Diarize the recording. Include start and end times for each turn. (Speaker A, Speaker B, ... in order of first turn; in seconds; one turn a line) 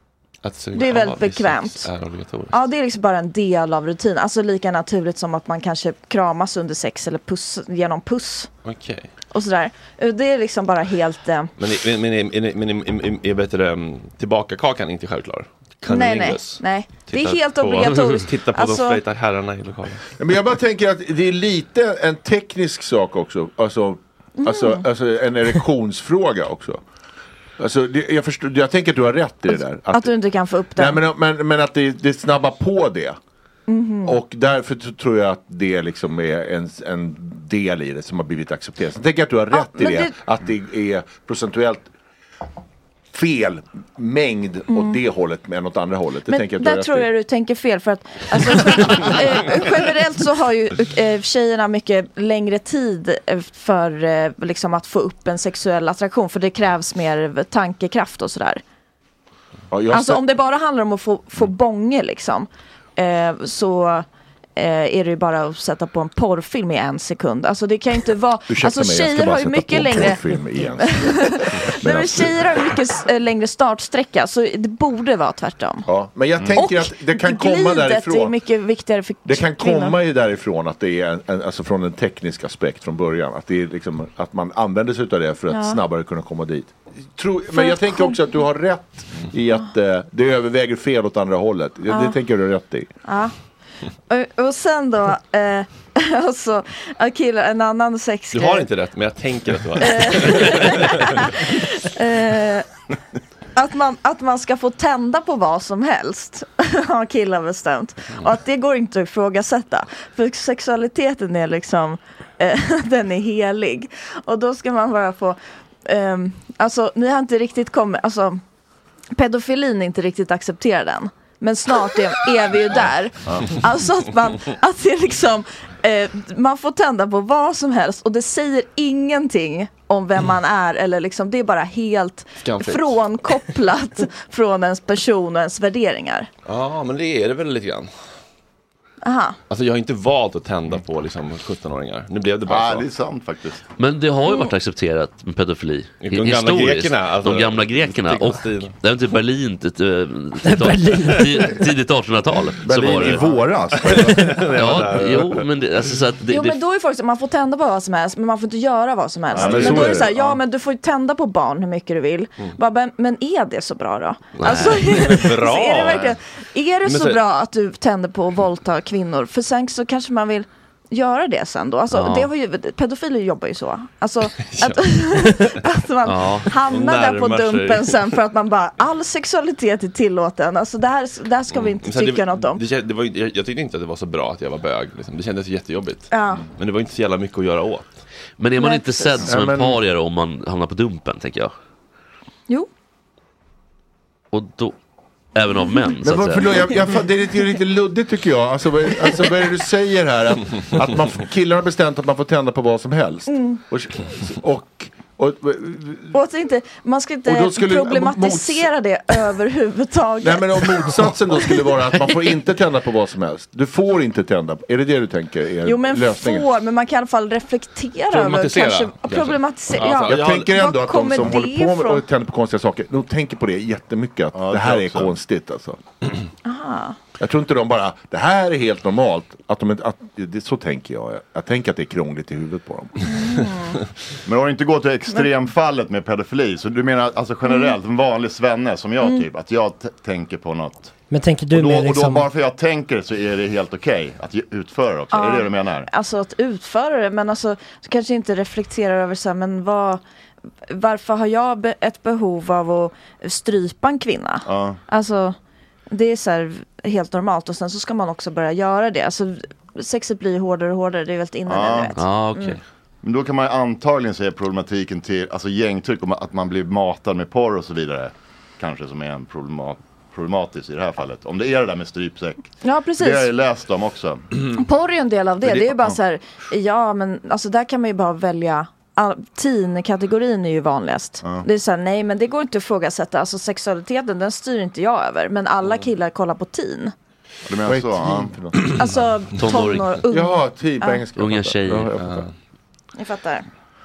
Speaker A: 0.4-2.6
Speaker B: 0.7-1.9
Speaker B: 2.5-8.5
Speaker A: 8.6-9.1
Speaker B: 9.3-11.5
Speaker A: 11.6-20.1
Speaker B: 15.9-19.0
Speaker C: 20.2-26.8
Speaker B: 24.4-24.9
Speaker C: 27.6-30.1
Speaker B: 29.5-31.0
Speaker C: 30.8-33.2
Speaker B: 33.7-34.2
Speaker C: 34.0-41.9
Speaker B: 39.5-40.1
Speaker C: 43.1-47.1
Speaker B: 44.7-45.0
Speaker B: 46.3-58.6
Speaker C: 59.7-60.2
Speaker B: 59.9-64.0
Speaker B: 64.6-75.9
Speaker C: 68.5-72.5
Speaker C: 75.9-78.3
Speaker B: 76.5-80.0
Speaker C: 79.2-92.9
Speaker B: 85.5-85.8
Speaker B: 87.5-88.2
Speaker B: 91.9-92.2
Speaker B: 93.0-93.3
Speaker B: 94.1-98.7
Speaker A: 98.3-101.2
Speaker B: 99.8-102.7
Speaker B: 103.5-118.4
Speaker B: 119.1-136.3
Speaker A: 132.4-133.0
Speaker A: 136.5-137.9
Speaker B: 139.0-139.4
Speaker A: 139.5-142.9
Speaker D: 142.4-143.6
Speaker E: 143.8-153.3
Speaker A: 146.0-148.7
Speaker F: 150.4-151.3
Speaker C: 152.7-154.2
Speaker D: 153.1-153.6
Speaker A: 153.7-155.4
Speaker E: 154.4-156.6
Speaker B: 156.3-182.6
Speaker A: 159.3-160.3
Speaker D: 159.4-160.0
Speaker C: 159.4-160.0
Speaker A: 164.3-166.2
Speaker E: 164.4-164.7
Speaker A: 166.8-167.2
Speaker E: 171.9-172.2
Speaker A: 174.4-175.5
Speaker E: 176.0-176.5
Speaker A: 176.6-178.0
Speaker A: 181.5-187.9
Speaker B: 186.1-186.4
Speaker E: 188.4-191.5
Speaker B: 188.6-189.3
Speaker C: 189.2-189.8
Speaker E: 194.3-194.7
Speaker E: 195.3-196.7
Speaker B: 195.6-195.9
Speaker C: 196.0-206.1
Speaker B: 203.3-203.6
Speaker B: 206.1-211.6
Speaker C: 207.2-208.7
Speaker C: 210.2-216.4
Speaker B: 215.6-222.0
Speaker A: 218.1-220.6
Speaker C: 220.0-225.8
Speaker D: 224.3-225.1
Speaker B: 226.4-227.0
Speaker C: 227.2-233.0
Speaker B: 233.0-233.8
Speaker D: 234.2-240.9
Speaker B: 237.4-237.8
Speaker B: 239.0-239.2
Speaker F: 241.1-242.3
Speaker D: 241.5-245.9
Speaker B: 245.1-250.0
Speaker B: 250.7-255.3
Speaker D: 254.4-254.8
Speaker B: 255.9-262.6
Speaker D: 261.5-261.9
Speaker E: 261.9-262.6
Speaker D: 263.0-274.3
Speaker B: 272.6-273.3
Speaker B: 274.5-286.9
Speaker D: 287.5-288.3
Speaker C: 287.6-288.7
Speaker B: 288.8-291.1
Speaker E: 289.4-290.0
Speaker C: 290.1-292.3
Speaker E: 291.1-291.9
Speaker A: 292.0-292.3
Speaker B: 292.9-293.4